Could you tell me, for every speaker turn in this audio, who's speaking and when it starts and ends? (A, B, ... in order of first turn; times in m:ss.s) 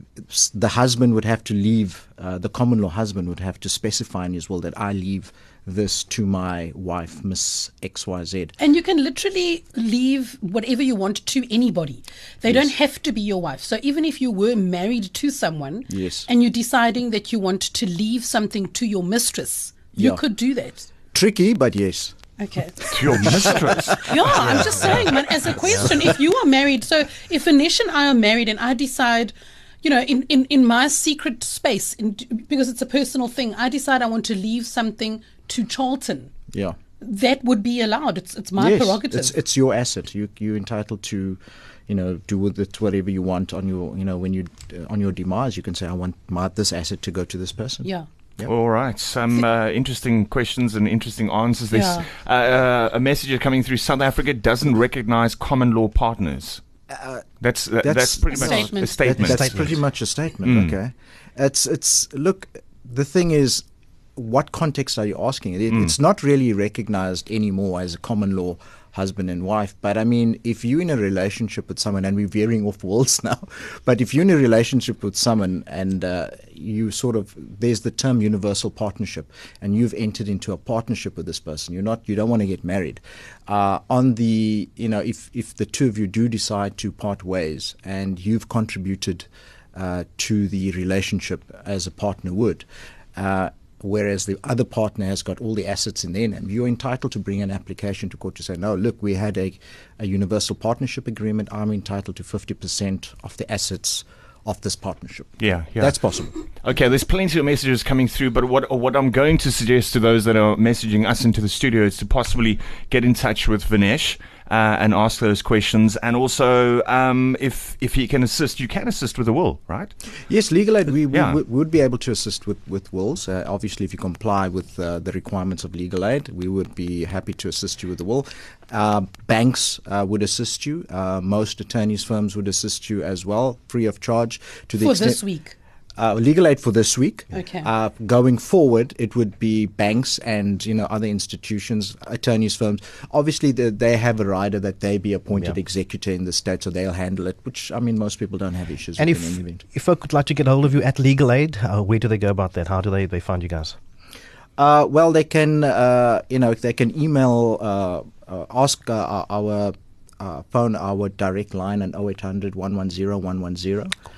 0:00.3-0:08.5 A
0:08.6-0:20.9 B
0:12.4-0:12.7 A
0:15.9-0:16.3 A
0:19.9-0:20.2 A
0:21.1-0:22.1 A
0:22.4-0:23.0 B
0:22.9-0:24.5 C
0:23.0-0:25.5 A
0:24.0-0:36.3 B
0:37.0-0:39.4 B
0:38.6-0:48.5 A
0:48.4-0:56.6 C
0:51.7-0:52.1 B
0:56.9-0:57.2 A
0:57.4-0:59.5 C
0:57.8-1:03.6 A
0:58.3-0:59.1 B
0:59.2-0:59.8 D
1:00.4-1:00.8 C
1:04.2-1:46.3 A
1:45.4-1:46.1 C
1:46.6-1:59.9 C
2:00.3-2:15.2 A
2:01.1-2:01.4 C
2:14.8-2:15.6 B
2:16.0-2:29.6 A
2:17.3-2:17.7 B
2:29.0-2:33.8 D
2:34.6-2:43.9 A